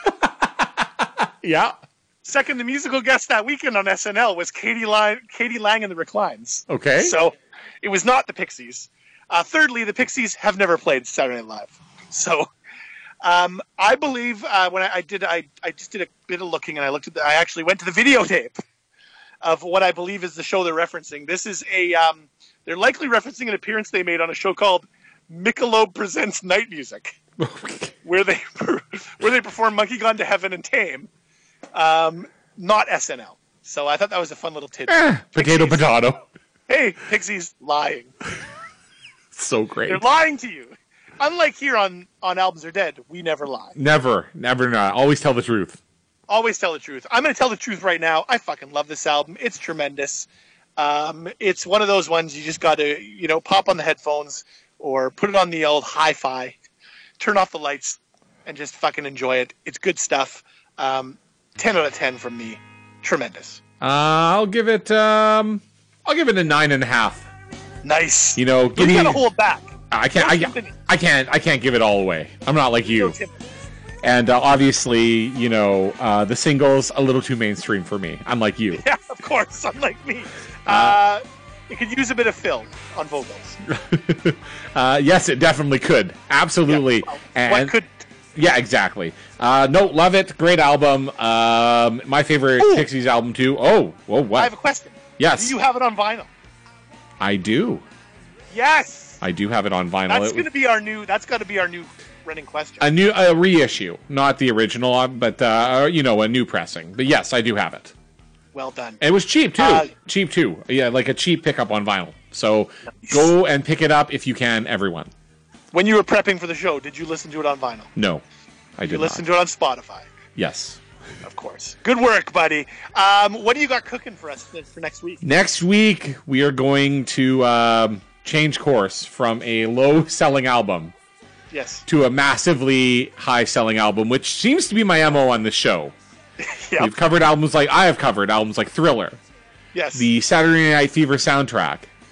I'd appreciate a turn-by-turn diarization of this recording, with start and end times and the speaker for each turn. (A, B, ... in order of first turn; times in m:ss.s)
0:00.2-0:01.8 A
0:02.2-0:12.5 B
0:06.7-0:07.1 A
0:13.2-0:18.6 B
0:19.4-0:27.2 B
0:27.4-0:27.9 A
0:28.0-0:31.1 B
0:31.7-0:35.8 B
0:34.9-0:36.2 A
0:36.7-0:38.1 B
0:39.3-0:40.0 A
0:39.9-0:43.8 B
0:43.8-0:45.8 A
0:46.3-0:56.6 B
0:57.2-1:03.6 B
1:03.8-1:07.3 A
1:07.8-1:10.8 B
1:08.4-1:09.2 A
1:09.9-1:13.1 A
1:12.8-1:13.4 B
1:14.0-1:18.8 A
1:18.7-1:23.6 B
1:20.7-1:21.0 A
1:23.7-1:27.7 A
1:26.7-1:28.0 B
1:28.3-1:34.5 A
1:32.6-1:32.9 B
1:34.4-1:36.3 B
1:35.2-1:35.5 A
1:37.2-1:37.8 A
1:38.5-1:39.2 B
1:39.2-1:40.5 A
1:40.1-1:42.8 B
1:42.8-1:47.9 A
1:48.5-1:49.0 B
1:49.0-1:55.1 A
1:49.6-1:49.9 B
1:53.0-1:53.3 B
1:55.7-1:57.9 B
1:58.0-1:58.2 A
1:58.8-1:59.2 A
1:58.9-2:00.1 B
2:00.4-2:00.8 A
2:01.2-2:05.2 B
2:05.2-2:10.9 A
2:11.5-2:11.8 B
2:11.9-2:15.9 A
2:16.4-2:16.9 B
2:16.8-2:19.2 A
2:19.7-2:20.1 B
2:19.9-2:21.9 A